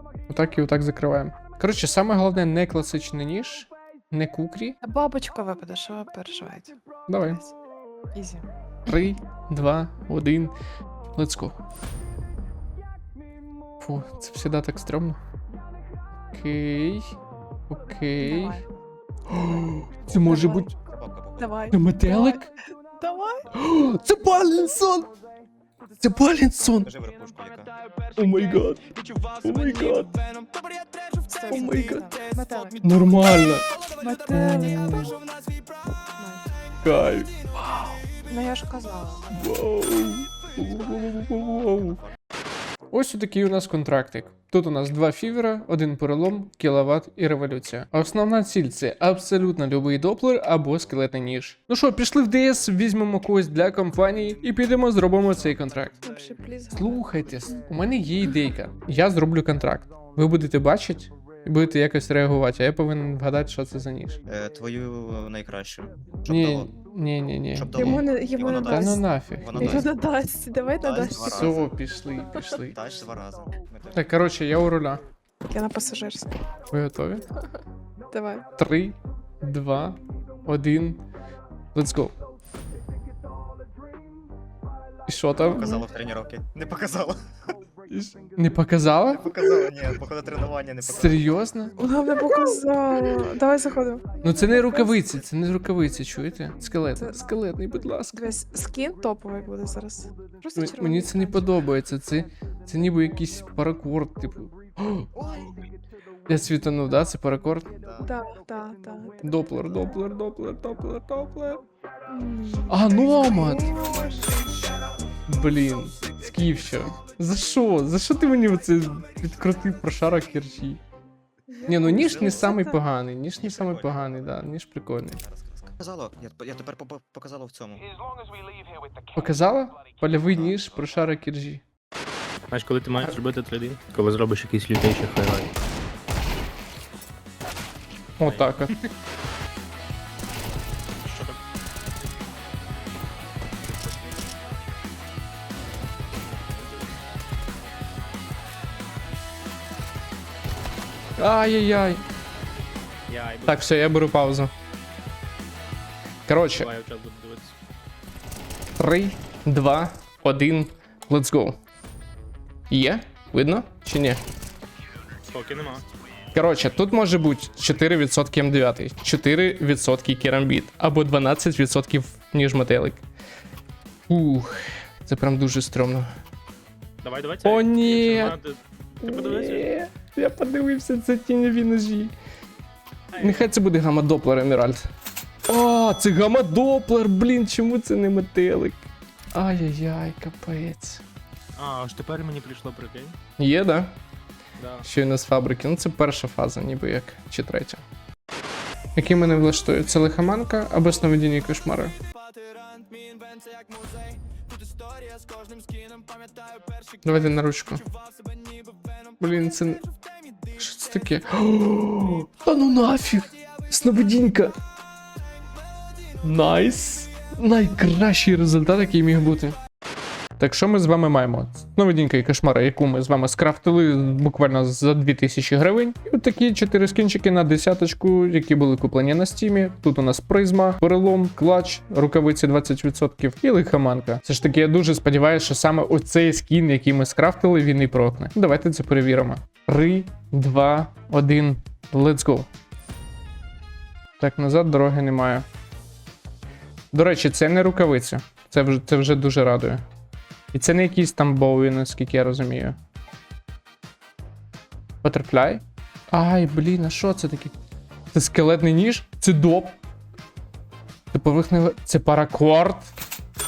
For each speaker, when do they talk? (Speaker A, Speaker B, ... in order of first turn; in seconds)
Speaker A: 0.3-4.8, 7.1-7.4, 8.9-10.6, 11.2-11.6, 13.8-15.2, 16.3-17.2, 17.7-18.6, 19.3-20.7, 21.7-22.5, 23.5-25.1, 26.0-26.9, 28.2-28.8, 29.4-30.2, 31.5-32.1, 32.8-33.6, 34.3-35.1, 36.8-37.8, 39.3-42.0, 42.9-56.0, 56.7-64.2, 66.3-69.9, 71.1-72.8, 73.9-75.0, 76.7-77.2, 78.6-81.0, 81.8-82.1, 85.1-85.8, 87.9-89.3, 90.8-92.5, 94.2-98.4, 100.6-105.1, 106.3-107.7, 109.2-111.6, 112.7-113.8, 115.3-120.8, 121.7-125.2, 129.2-131.6, 138.2-138.7, 151.2-152.0, 153.4-154.5, 156.3-156.7, 158.8-161.6, 162.7-164.2, 166.3-173.0, 174.1-176.1, 177.4-178.4, 179.0-182.1, 183.2-184.9, 185.5-191.0, 193.4-194.0, 194.8-197.8, 199.0-201.9, 207.0-207.8, 209.2-209.8, 210.6-214.6, 216.2-219.6, 220.4-242.5, 244.2-245.4, 246.9-249.8, 250.5-252.8, 255.0-257.5, 258.1-259.8, 261.1-262.9
Speaker B: 4.8-7.5, 8.2-8.5, 18.2-18.6, 20.2-20.7, 21.4-23.4, 29.6-29.9, 31.3-32.9, 34.0-35.2, 36.2-36.5, 38.3-39.4, 56.0-57.6, 67.8-71.5, 75.5-76.3, 78.1-78.5, 91.8-95.1, 98.2-101.4, 108.0-109.2, 112.1-114.8, 121.5-122.8
Speaker C: 20.7-21.7, 26.7-27.8, 64.3-66.7, 67.5-70.0, 70.8-71.7, 72.6-74.3, 85.4-87.2, 89.1-91.4, 121.8-122.6, 123.3-124.5, 125.2-127.8, 130.3-130.6
Speaker D: 132.5-135.5, 138.2-138.8, 141.0-141.4, 153.1-153.8, 156.6-157.6, 165.3-165.8, 177.0-179.7, 183.1-183.5, 191.6-193.2, 194.6-194.9